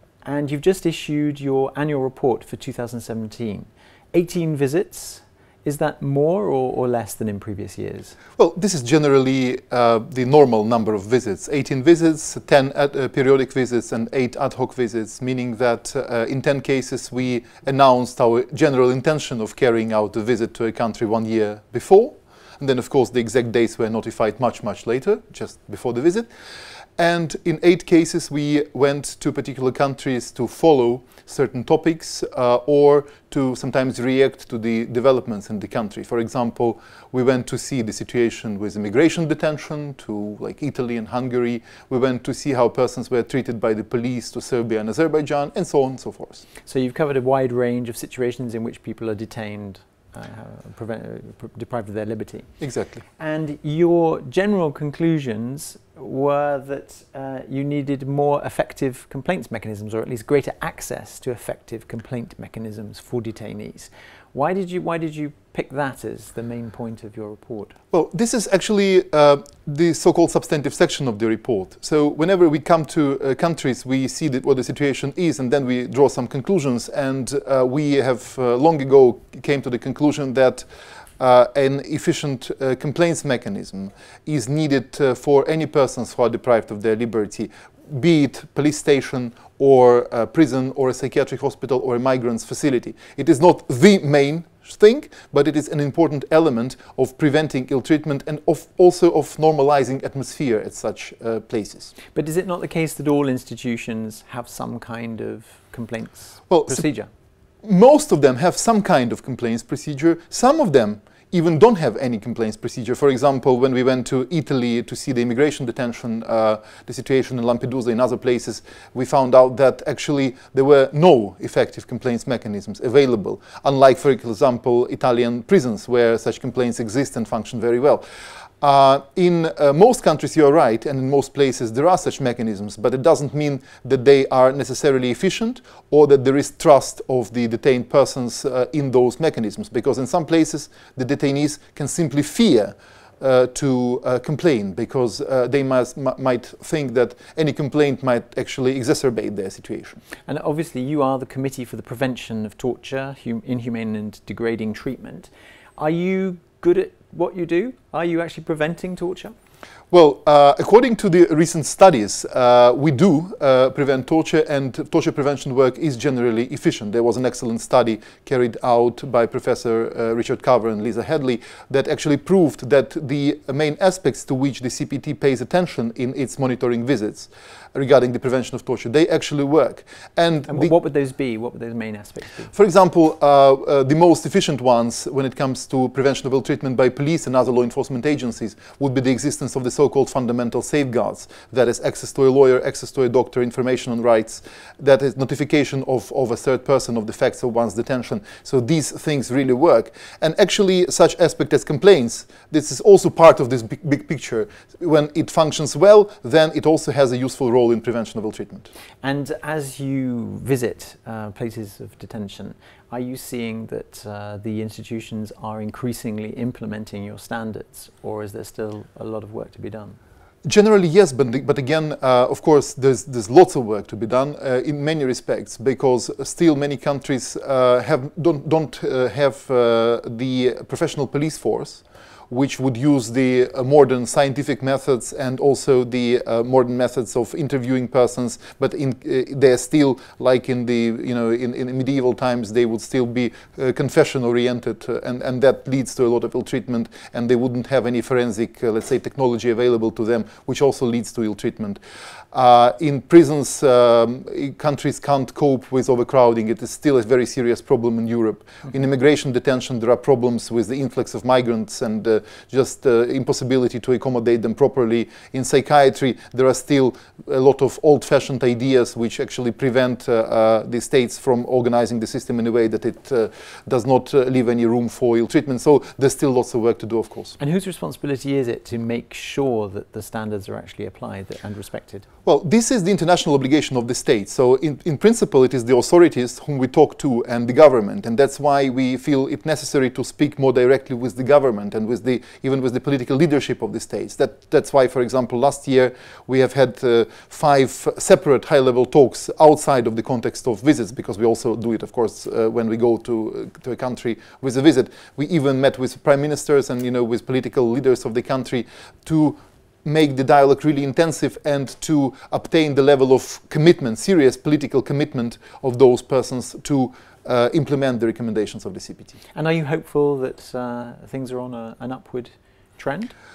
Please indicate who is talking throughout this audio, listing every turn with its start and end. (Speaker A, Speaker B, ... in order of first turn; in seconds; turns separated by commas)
Speaker A: 0.2-8.2, Speaker B: 8.4-26.3, Speaker B: 27.0-46.5, Speaker A: 46.6-52.5, Speaker B: 52.6-53.0, Speaker A: 53.1-67.7, Speaker B: 67.9-80.7, Speaker B: 81.2-101.9, Speaker A: 102.1-107.1, Speaker B: 106.5-106.8, Speaker B: 107.6-128.0, Speaker B: 128.6-150.0, Speaker A: 150.3-159.3, Speaker B: 159.9-180.7, Speaker A: 180.5-182.5, Speaker B: 182.5-208.7, Speaker A: 209.0-220.0, Speaker B: 220.4-251.8, Speaker B: 252.3-277.4, Speaker A: 277.4-282.1, Speaker B: 282.2-319.2, Speaker A: 319.3-323.1